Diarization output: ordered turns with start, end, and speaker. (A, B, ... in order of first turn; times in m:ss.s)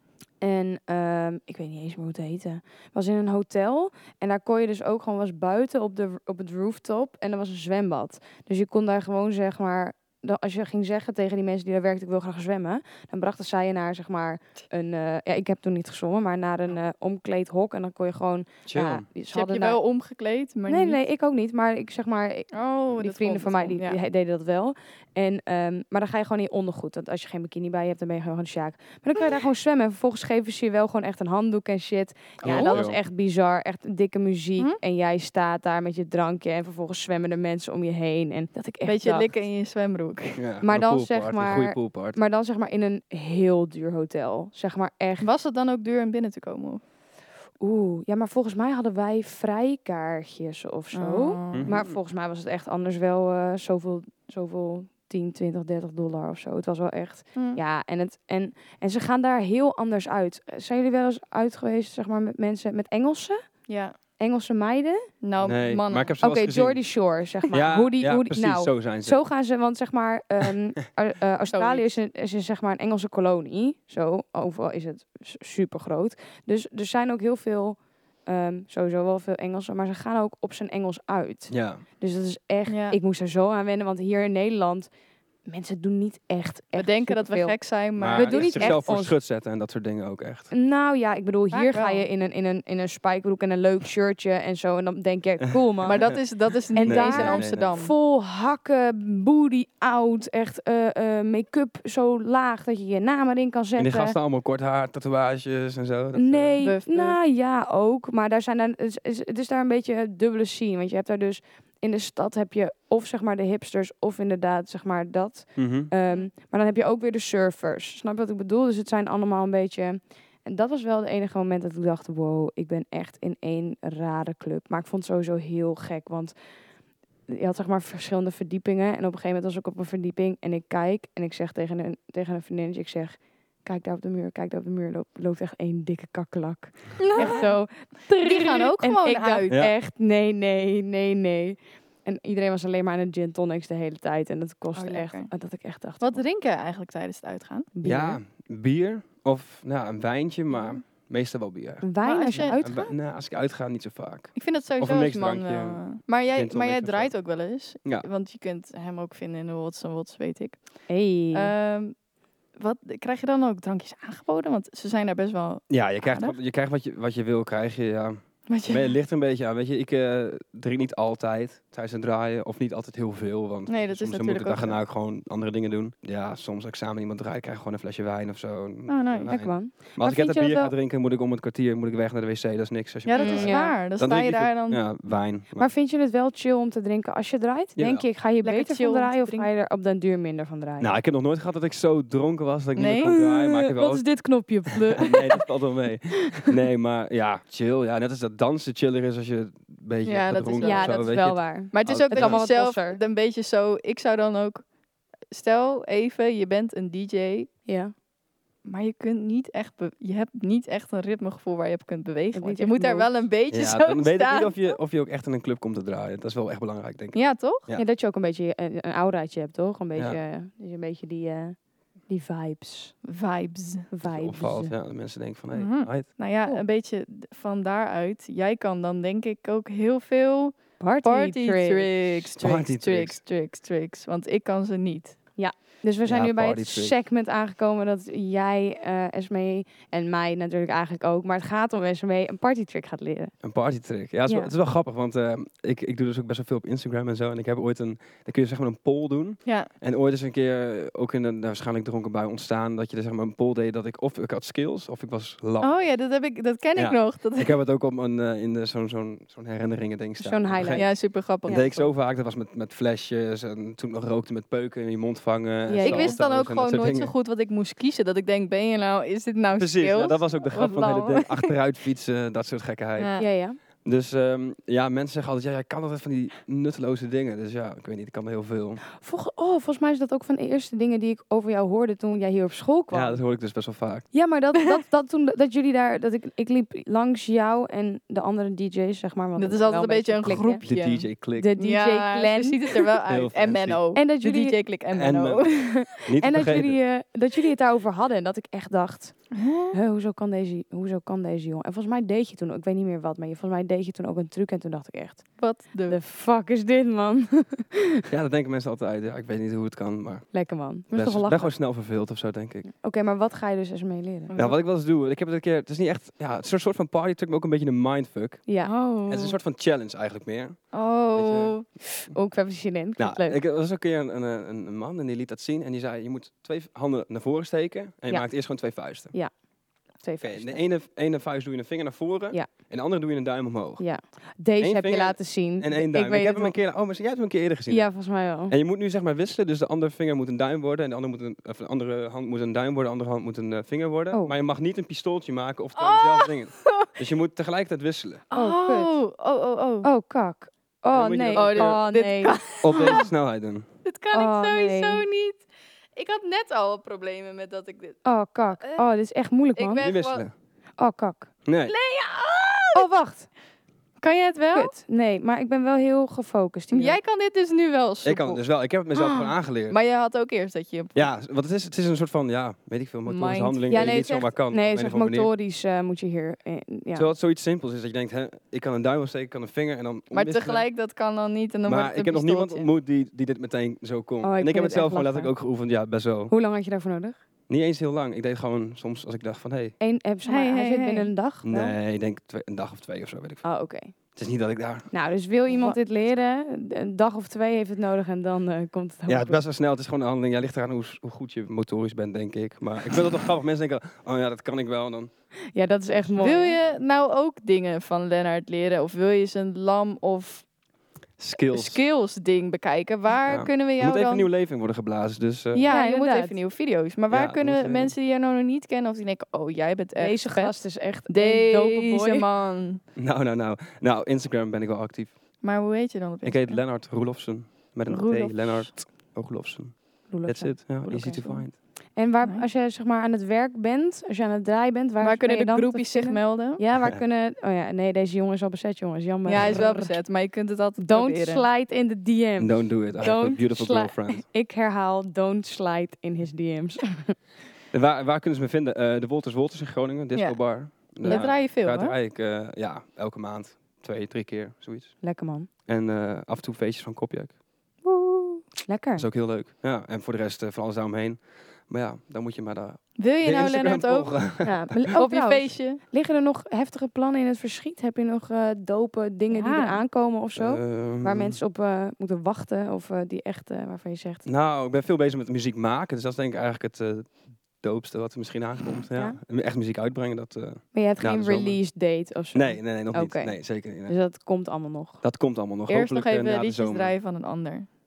0:00.4-0:19.8 A
0:18.6-0:19.0 B
0:19.3-0:21.0 C
0:20.7-0:39.3 A
0:22.5-0:24.0 C
0:32.4-0:32.8 C
0:32.4-0:33.0 B
0:38.8-0:40.4 C
0:40.4-0:42.2 B
0:40.6-0:45.3 A
0:45.2-0:46.8 C
0:47.6-1:03.4 A
0:50.9-0:51.8 C
0:51.5-0:52.0 B
0:57.3-0:57.6 C
1:03.7-1:03.9 C
1:04.2-1:05.0 A
1:05.2-1:06.1 C
1:05.4-1:06.8 B
1:06.2-1:24.9 A
1:07.5-1:09.2 B
1:11.5-1:11.9 C
1:21.5-1:21.8 B
1:22.7-1:23.0 C
1:25.4-1:27.6 A
1:26.8-1:28.9 C
1:28.0-1:30.5 B
1:28.1-1:29.2 A
1:30.5-1:36.2 A
1:31.5-1:32.0 C
1:35.4-1:36.2 B
1:35.8-1:37.9 C
1:36.7-1:44.2 A
1:36.8-1:37.7 B
1:43.8-1:46.5 B
1:46.1-2:06.3 A
1:46.6-1:47.2 C
1:55.6-1:55.9 B
2:07.3-2:26.2 A
2:17.0-2:17.5 C
2:18.1-2:19.5 C
2:24.7-2:25.3 C
2:26.0-2:27.7 C
2:27.7-2:28.2 A
2:27.8-2:37.1 B
2:30.5-2:30.8 C
2:31.8-2:32.9 A
2:32.0-2:32.6 C
2:34.3-2:40.6 C
2:40.9-2:41.5 A
2:41.3-2:41.9 C
2:42.6-2:46.4 C
2:45.7-3:05.7 B
2:48.5-2:49.0 C
2:53.7-2:54.8 C
2:58.9-2:59.3 C
2:59.3-3:00.7 A
3:03.0-3:04.8 C
3:03.2-3:03.8 A
3:05.6-3:10.9 A
3:07.8-3:08.0 B
3:08.4-3:09.5 C
3:10.8-3:14.1 B
3:12.8-3:13.2 C
3:13.1-3:15.4 A
3:14.7-3:22.4 B
3:20.0-3:21.1 C
3:20.6-3:23.0 A
3:21.7-3:24.6 C
3:25.3-3:27.5 C
3:27.7-3:27.9 A
3:28.6-3:34.8 C
3:32.3-3:33.1 A
3:33.5-3:37.8 B
3:37.1-3:37.6 C
3:37.7-3:41.6 A
3:42.1-3:42.9 A
3:43.0-3:43.9 C
3:43.9-3:44.7 A
3:44.0-3:46.1 B
3:45.5-3:55.2 C
3:50.8-3:51.9 A
3:52.4-3:53.2 B
3:55.4-4:03.3 A
3:56.0-3:56.9 B
4:03.4-4:15.7 B
4:04.2-4:04.5 A
4:15.6-4:17.5 C
4:16.8-4:27.1 B
4:20.2-4:21.7 A
4:20.7-4:21.9 C
4:25.7-4:26.1 A
4:25.8-4:31.5 C
4:29.6-4:33.2 B
4:33.0-4:33.3 C
4:33.2-4:33.6 A
4:33.8-4:38.8 B
4:38.9-4:43.2 A
4:42.9-4:44.1 B
4:44.1-4:50.6 A
4:49.4-4:55.6 C
4:50.6-4:51.5 B
4:51.4-4:52.9 A
4:53.1-4:53.8 B
4:53.9-4:54.6 A
4:54.9-4:56.8 B
4:55.5-5:08.0 A
4:59.3-4:59.8 C
5:05.4-5:06.0 C
5:08.1-5:10.3 B
5:10.3-5:11.5 A
5:10.9-5:12.7 B
5:12.7-5:14.3 A
5:14.3-5:14.6 C
5:14.4-5:18.5 B
5:18.5-5:19.4 A
5:18.6-5:19.0 C
5:19.0-5:21.5 B
5:20.7-5:21.6 C
5:22.1-5:23.4 A
5:23.0-5:29.1 B
5:30.0-5:30.6 A
5:30.2-5:33.8 B
5:33.8-5:36.6 A
5:34.6-5:37.9 B
5:37.7-5:38.5 A
5:38.5-5:48.2 B
5:45.8-5:46.9 C
5:48.3-5:49.9 C
5:48.3-5:48.9 A
5:49.8-5:53.0 A
5:50.9-5:51.8 B
5:51.4-5:53.1 C
5:52.6-5:53.6 B
5:53.8-5:55.4 C
5:54.1-5:55.0 A
5:56.0-5:58.0 C
5:58.0-5:59.8 A
5:59.6-6:00.2 C
5:59.8-6:00.3 B
6:00.8-6:01.3 A
6:01.4-6:01.7 B
6:01.7-6:02.9 C
6:02.7-6:03.3 A
6:04.0-6:04.7 C
6:04.5-6:07.0 A
6:06.7-6:08.4 C
6:08.0-6:09.8 B
6:08.9-6:09.3 A
6:09.7-6:11.0 C
6:10.9-6:15.3 B
6:13.0-6:14.0 C
6:13.7-6:17.1 A
6:16.9-6:20.6 B
6:20.1-6:22.7 C
6:21.7-6:26.3 B
6:24.2-6:25.3 A
6:26.3-6:27.2 A
6:27.5-6:29.7 B
6:29.8-6:31.7 A
6:30.2-6:31.1 C
6:31.4-6:33.5 B
6:33.4-6:33.9 A
6:34.2-6:34.9 B
6:34.9-6:39.4 A
6:39.1-6:45.1 B
6:45.5-6:46.5 A
6:46.2-6:50.4 C
6:51.2-6:51.8 B
6:51.3-6:54.3 C
6:53.2-6:55.7 B
6:55.5-7:02.8 C
6:55.7-6:56.4 A
6:57.1-6:57.9 B
7:00.0-7:02.2 A
7:03.0-7:05.2 B
7:05.4-7:06.6 C
7:06.2-7:11.6 B
7:07.9-7:08.7 C
7:10.1-7:20.0 A
7:15.0-7:16.6 C
7:19.2-7:21.4 C
7:20.8-7:27.1 A
7:22.4-7:24.2 B
7:27.7-7:35.0 B
7:30.1-7:31.9 C
7:31.0-7:31.3 A
7:35.0-7:35.5 A
7:35.6-7:37.3 B
7:37.8-7:39.1 A
7:39.0-7:44.9 B
7:43.0-7:44.1 C
7:44.4-7:54.2 A
7:44.9-7:45.8 C
7:49.3-7:49.8 C
7:50.4-7:51.4 B
7:54.2-8:01.6 B
8:00.7-8:05.0 A
8:02.3-8:04.0 B
8:05.0-8:06.9 B
8:05.7-8:07.7 C